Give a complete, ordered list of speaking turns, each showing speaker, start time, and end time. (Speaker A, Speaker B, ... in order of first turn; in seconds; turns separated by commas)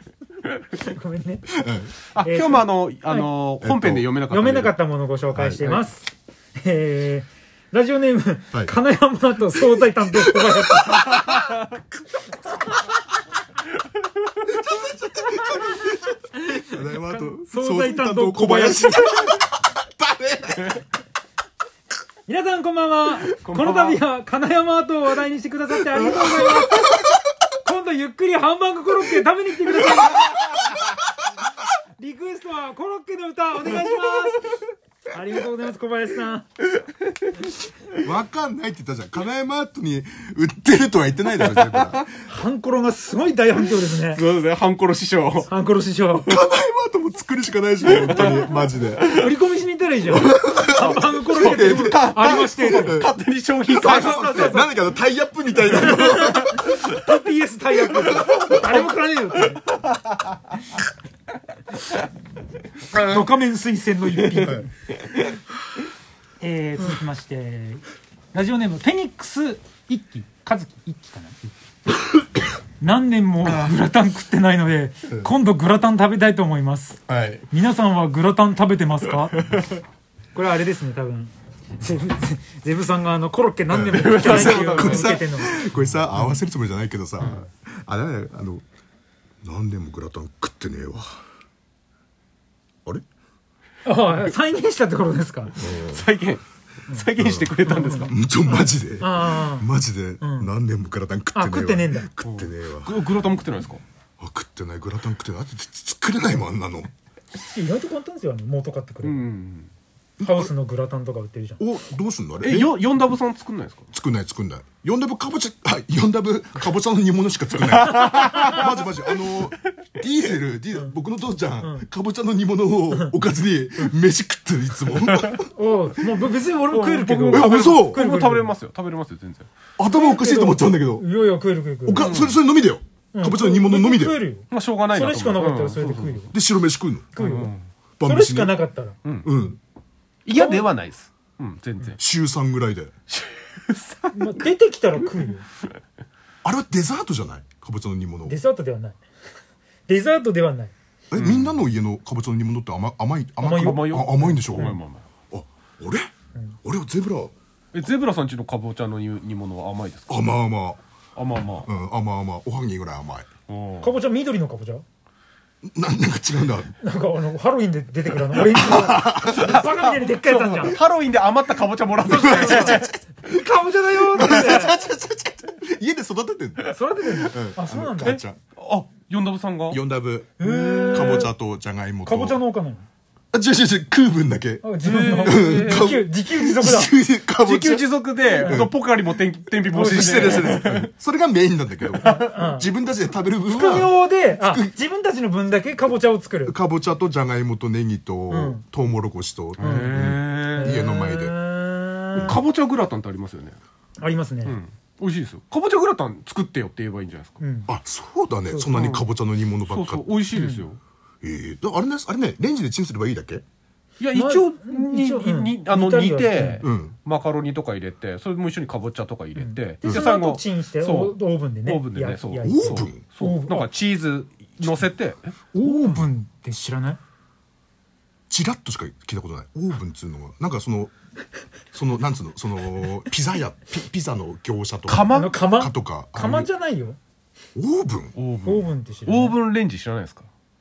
Speaker A: 0.7-1.5, Speaker B: 1.5-2.0, Speaker C: 2.1-4.7, Speaker A: 2.2-3.4, Speaker B: 3.6-4.1, Speaker A: 4.2-11.5, Speaker B: 5.3-5.6, Speaker B: 10.3-11.3, Speaker B: 14.5-20.8, Speaker A: 16.7-19.3, Speaker A: 22.3-30.8, Speaker C: 23.4-24.0, Speaker B: 26.1-27.1, Speaker A: 32.0-36.5, Speaker B: 37.9-42.2, Speaker C: 41.5-42.0, Speaker A: 42.1-44.3, Speaker C: 44.1-45.5, Speaker A: 45.5-46.4, Speaker B: 46.2-49.2, Speaker A: 47.9-53.0, Speaker B: 50.1-53.1, Speaker C: 50.8-54.7, Speaker A: 53.7-54.7, Speaker B: 53.9-56.6, Speaker A: 55.7-59.6, Speaker C: 56.5-57.0, Speaker B: 58.0-58.4, Speaker A: 62.9-64.7, Speaker A: 66.4-71.4, Speaker A: 72.8-79.5, Speaker B: 73.4-73.8, Speaker B: 77.1-77.4, Speaker C: 79.4-79.8, Speaker A: 80.3-85.7, Speaker B: 83.7-88.6, Speaker C: 83.9-85.2, Speaker B: 89.4-91.1, Speaker A: 93.8-95.7, Speaker C: 95.6-98.1, Speaker B: 95.6-96.0, Speaker A: 96.9-99.7, Speaker B: 97.2-103.3, Speaker A: 100.2-100.5, Speaker A: 101.3-102.2, Speaker C: 102.2-103.8, Speaker B: 104.2-106.9, Speaker A: 107.5-109.3, Speaker C: 109.0-109.7, Speaker B: 110.2-110.5, Speaker A: 110.2-111.6, Speaker B: 111.6-112.8, Speaker C: 112.4-113.9, Speaker B: 113.9-125.5, Speaker C: 117.7-118.7, Speaker A: 118.1-118.6, Speaker A: 121.6-121.9, Speaker A: 125.4-128.5, Speaker C: 126.7-129.5, Speaker B: 127.3-128.0, Speaker B: 129.8-131.1, Speaker A: 129.8-132.2, Speaker B: 131.8-134.2, Speaker C: 131.9-132.4, Speaker A: 133.1-136.3, Speaker C: 134.5-136.2, Speaker B: 136.3-137.2, Speaker A: 137.1-139.0, Speaker C: 137.2-137.7, Speaker B: 138.0-138.6, Speaker B: 139.2-139.6, Speaker C: 140.2-142.0, Speaker A: 140.3-140.7, Speaker B: 142.0-142.9, Speaker C: 143.1-144.4, Speaker A: 144.1-145.4, Speaker B: 146.4-148.4, Speaker A: 148.2-149.0, Speaker A: 149.9-150.7, Speaker B: 151.1-154.7, Speaker C: 151.1-151.6, Speaker A: 153.4-154.8, Speaker C: 153.4-155.1, Speaker B: 155.3-156.1, Speaker B: 156.6-157.3, Speaker C: 157.7-160.2, Speaker B: 160.1-160.8, Speaker C: 161.2-161.7, Speaker B: 161.6-163.3, Speaker C: 163.5-163.9, Speaker A: 163.8-164.8, Speaker B: 165.6-166.7, Speaker A: 166.8-170.8, Speaker B: 168.3-169.6, Speaker C: 169.3-172.9, Speaker A: 172.0-174.8, Speaker B: 172.1-173.4, Speaker B: 174.0-178.4, Speaker A: 176.6-178.2, Speaker C: 178.0-179.8, Speaker B: 179.7-182.4, Speaker A: 180.4-181.3, Speaker C: 180.7-181.2, Speaker A: 182.0-182.8, Speaker B: 183.3-188.8, Speaker A: 184.6-186.9, Speaker C: 184.8-186.0, Speaker C: 187.4-190.9, Speaker A: 188.2-188.7, Speaker A: 189.7-190.7, Speaker B: 189.9-194.7, Speaker A: 192.0-192.7, Speaker C: 192.0-192.3, Speaker A: 193.4-196.6, Speaker B: 196.4-201.3, Speaker A: 198.3-198.6, Speaker C: 199.6-200.8, Speaker A: 199.6-202.4, Speaker B: 202.1-202.4, Speaker C: 202.2-203.6, Speaker A: 204.0-204.6, Speaker C: 204.4-207.4, Speaker A: 207.4-207.7, Speaker B: 207.7-210.1, Speaker A: 208.5-208.8, Speaker C: 208.7-209.1, Speaker C: 209.6-210.8, Speaker A: 210.3-210.6, Speaker B: 211.2-213.4, Speaker C: 214.0-225.4, Speaker A: 214.1-216.7, Speaker B: 216.6-216.9, Speaker A: 219.4-223.7, Speaker B: 222.4-223.0, Speaker B: 225.5-226.1, Speaker A: 225.6-227.0, Speaker B: 228.3-230.9, Speaker B: 231.7-236.5, Speaker C: 234.9-235.4, Speaker A: 235.0-237.0, Speaker B: 237.6-238.1, Speaker C: 238.2-240.3, Speaker A: 238.4-239.4